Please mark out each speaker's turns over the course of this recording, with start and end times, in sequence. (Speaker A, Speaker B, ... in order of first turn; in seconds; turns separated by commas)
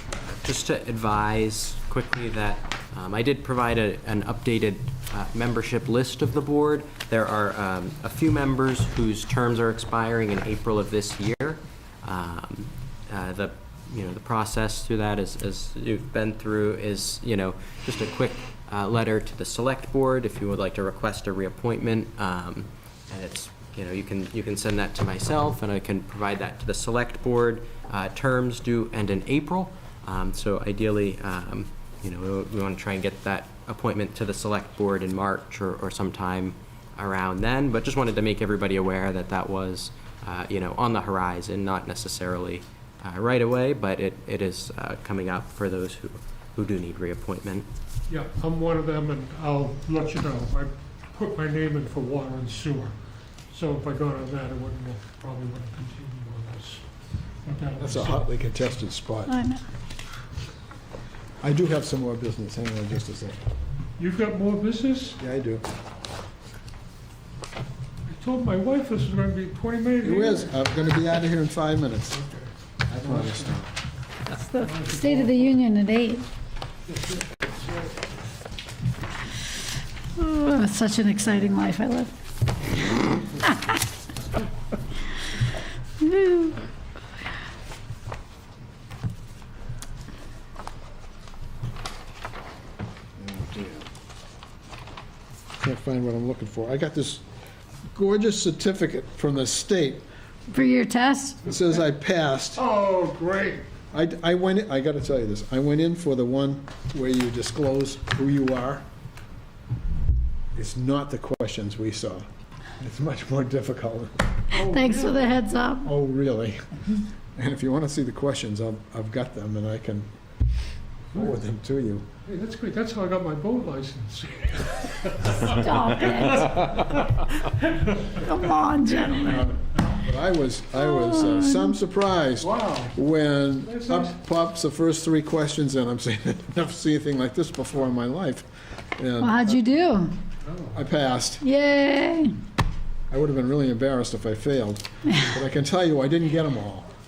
Speaker A: 0.4-47.7, Speaker B: 48.1-52.9, Speaker B: 53.5-56.8, Speaker B: 57.4-58.3, Speaker C: 57.8-59.3, Speaker D: 59.3-59.6, Speaker C: 61.4-63.4, Speaker B: 64.0-65.2, Speaker C: 65.2-65.6, Speaker B: 68.0-70.5, Speaker C: 70.0-72.2, Speaker B: 72.1-72.5, Speaker C: 72.9-73.7, Speaker B: 73.1-73.4, Speaker D: 74.3-76.2, Speaker B: 74.6-75.5, Speaker D: 80.2-82.1, Speaker D: 82.9-83.7, Speaker D: 86.0-86.6, Speaker C: 93.2-93.9, Speaker C: 95.6-97.2, Speaker C: 97.9-100.0, Speaker D: 100.5-101.4, Speaker C: 101.4-102.6, Speaker B: 102.5-103.7, Speaker C: 103.9-108.8, Speaker C: 110.5-112.2, Speaker C: 112.8-114.2, Speaker B: 114.5-115.4, Speaker D: 114.5-115.9, Speaker C: 115.8-116.6, Speaker C: 117.3-120.1, Speaker C: 121.1-122.0, Speaker B: 122.2-126.9, Speaker D: 125.5-126.5, Speaker B: 127.5-128.2, Speaker D: 128.2-129.4, Speaker C: 129.1-138.4, Speaker D: 130.8-131.7, Speaker B: 132.4-132.9, Speaker B: 133.6-134.1, Speaker C: 139.0-139.6, Speaker D: 139.2-140.2, Speaker B: 140.4-140.8, Speaker C: 140.7-141.4, Speaker D: 141.4-142.4, Speaker C: 143.1-146.9